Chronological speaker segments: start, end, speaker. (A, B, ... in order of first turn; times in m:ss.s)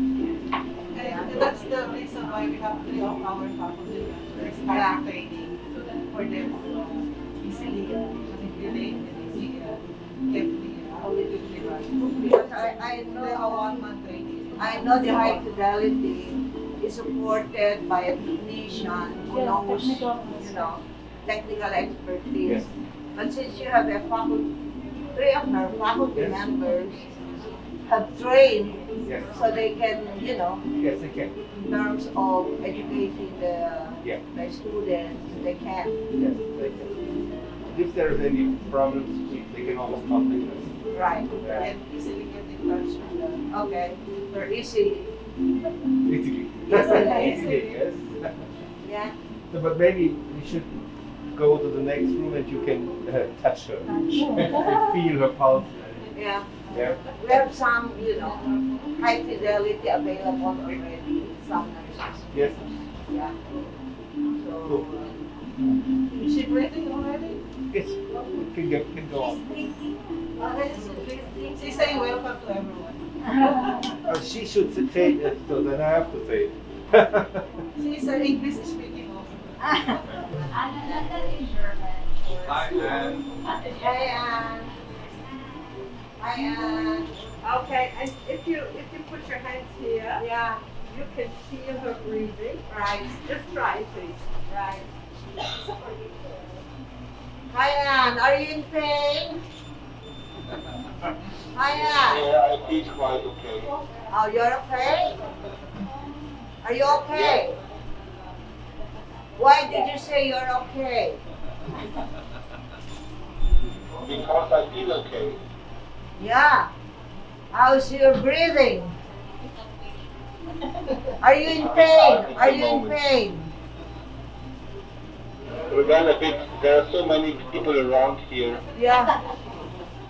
0:00.9-0:15.6 A
0:00.9-0:01.5 B
0:04.7-0:05.0 B
0:12.2-0:13.8 B
0:14.6-0:22.6 B
0:22.4-0:22.6 C
0:23.1-0:24.5 B
0:25.1-0:27.0 B
0:27.8-0:30.6 B
0:29.0-0:29.4 C
0:30.7-0:31.4 C
0:31.6-0:35.9 B
0:36.1-0:36.9 C
0:37.6-0:40.8 C
0:40.9-0:41.7 B
0:41.4-0:41.7 C
0:41.5-0:43.4 A
0:43.5-0:45.1 B
0:46.0-0:48.4 C
0:46.7-0:47.6 B
0:48.8-0:49.1 B
0:49.5-0:50.7 C
0:51.3-0:56.0 C
0:56.1-0:56.5 B
0:56.7-0:57.0 C
0:57.2-0:58.4 B
0:59.0-1:02.4 B
1:02.3-1:02.6 C
1:03.1-1:03.3 B
1:04.4-1:05.1 B
1:06.1-1:07.4 A
1:07.7-1:09.4 C
1:10.4-1:13.1 A
1:14.0-1:17.4 C
1:17.8-1:19.8 A
1:20.8-1:21.2 B
1:22.5-1:23.2 C
1:23.7-1:24.7 B
1:26.2-1:27.1 B
1:27.4-1:34.2 D
1:30.2-1:30.7 B
1:32.7-1:33.2 B
1:34.5-1:34.9 B
1:35.7-1:36.3 D
1:37.5-1:39.4 B
1:41.5-1:42.2 B
1:41.9-1:43.7 E
1:44.1-1:45.2 B
1:46.6-1:47.6 B
1:46.8-1:47.5 E
1:49.4-1:51.2 B
1:54.0-1:55.4 E
1:56.2-1:56.7 B
1:57.5-1:58.9 B
2:01.2-2:03.4 B
2:01.4-2:03.1 E
2:05.7-2:08.6 E
2:08.7-2:09.1 B